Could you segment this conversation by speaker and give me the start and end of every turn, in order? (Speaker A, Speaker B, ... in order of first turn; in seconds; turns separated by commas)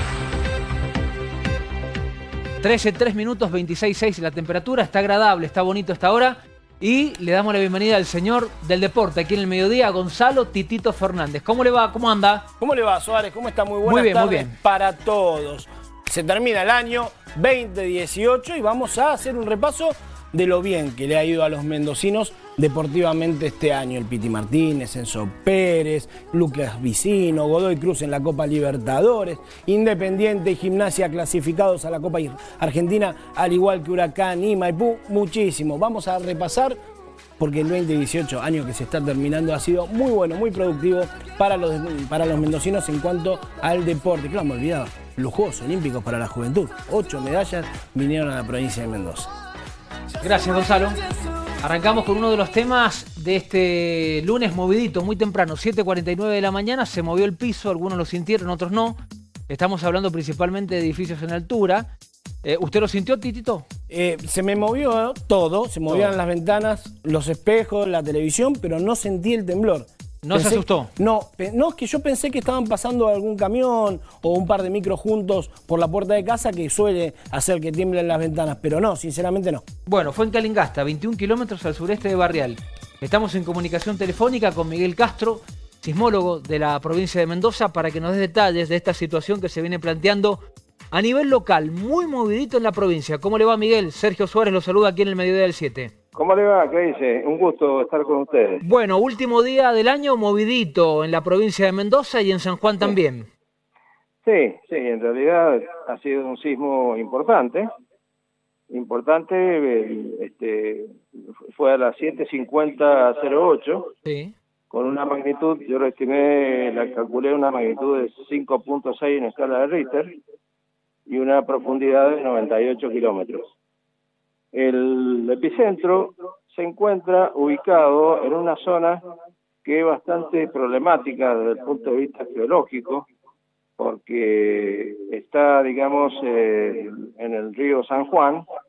Speaker A: 2.6-12.5, Speaker B: 12.6-36.8, Speaker A: 13.8-14.6, Speaker B: 37.4-49.3, Speaker A: 50.2-51.0, Speaker A: 51.6-61.9, Speaker A: 62.4-63.6, Speaker B: 63.9-79.7, Speaker A: 70.2-70.9, Speaker A: 79.9-95.9, Speaker C: 96.2-98.6, Speaker A: 98.6-103.3, Speaker C: 104.2-107.7, Speaker C: 108.7-110.9, Speaker C: 111.5-113.9, Speaker A: 114.1-114.3, Speaker C: 114.7-120.1, Speaker C: 121.1-123.5, Speaker C: 124.5-129.0, Speaker C: 129.7-133.1, Speaker C: 133.8-138.4